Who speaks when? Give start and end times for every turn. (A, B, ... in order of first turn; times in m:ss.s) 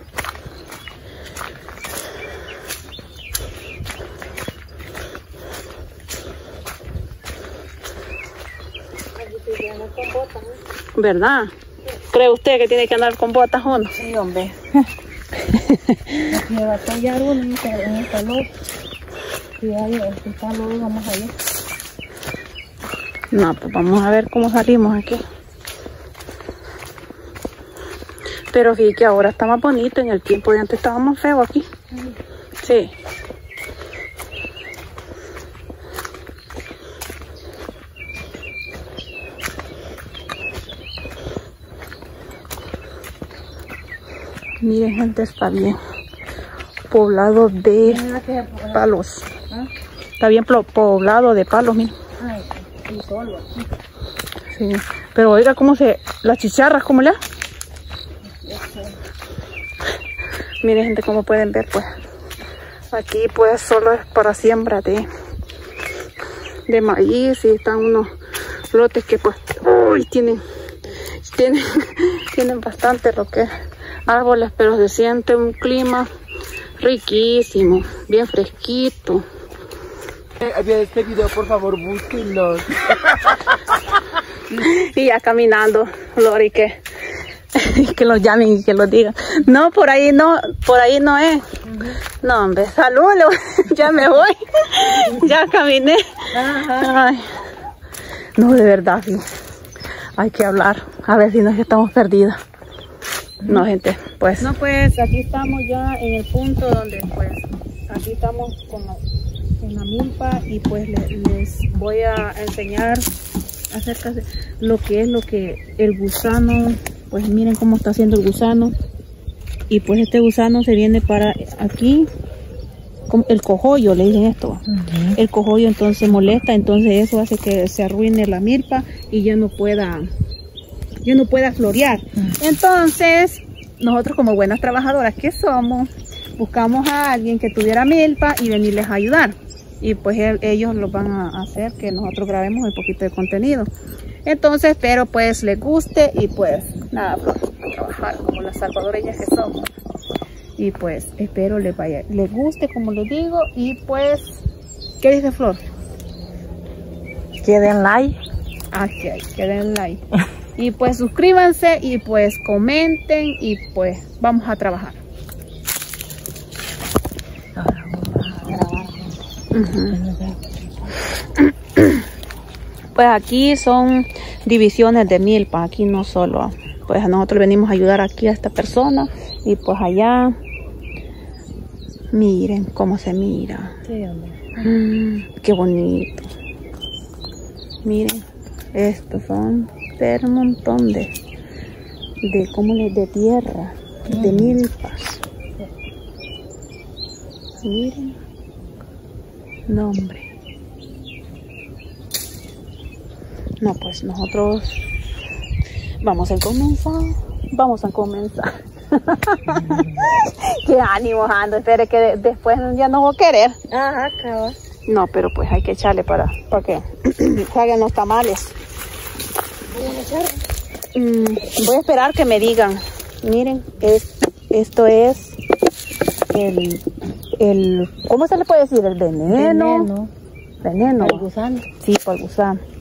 0:09.2-0:10.6 A
0:11.0-0:11.5 B
0:12.1-0:13.9 B
0:13.6-0:14.6 A
0:15.5-0:16.3 B
0:16.3-0:18.5 A
0:19.6-0:21.4 A
0:23.3-0:25.2 B
0:28.5-0:31.7 B
0:32.6-0:32.9 B
0:44.6-0:45.8 B
0:46.9-0:48.0 B
0:47.8-0:48.9 A
0:48.7-0:49.3 B
0:50.2-0:52.0 B
0:52.2-0:53.7 A
0:54.5-0:57.2 B
0:58.4-0:58.9 A
1:00.6-1:01.9 B
1:02.9-1:05.1 B
1:06.7-1:08.1 B
1:08.7-1:10.4 B
1:11.2-1:13.5 B
1:14.0-1:16.1 B
1:16.8-1:19.2 B
1:20.4-1:23.5 C
1:24.5-1:26.8 B
1:27.5-1:31.4 B
1:31.6-1:32.0 A
1:32.2-1:37.3 B
1:36.3-1:36.9 A
1:38.4-1:39.2 B
1:40.2-1:42.4 B
1:43.4-1:43.7 A
1:43.4-1:49.0 B
1:49.6-1:53.1 B
1:53.7-1:58.7 B
1:59.7-2:02.1 B
2:03.1-2:04.6 B
2:04.6-2:05.2 A
2:05.1-2:10.1 B
2:11.0-2:23.7 B
2:24.2-2:29.7 B
2:30.6-2:34.3 B
2:35.0-2:35.6 B
2:37.4-2:38.2 A
2:38.7-2:40.0 B
2:40.6-2:45.0 B
2:47.5-2:49.2 A
2:49.5-2:50.0 B
2:49.9-2:50.9 A
2:52.9-3:00.4 B
3:02.1-3:03.8 B
3:03.8-3:04.7 A
3:04.6-3:06.3 B
3:07.8-3:11.1 B
3:12.2-3:15.2 B
3:14.1-3:14.6 A
3:17.6-3:18.2 B
3:19.7-3:20.3 B
3:23.6-3:24.9 B
3:26.0-3:33.6 B
3:29.5-3:30.0 A
3:33.7-3:34.6 A
3:34.9-3:38.5 B
3:39.7-3:40.4 A
3:40.9-3:45.4 B
3:46.3-3:46.8 B
3:47.4-3:49.9 B
3:49.3-3:50.1 A
3:50.6-3:51.3 B
3:51.0-3:51.6 A
3:51.8-3:52.6 B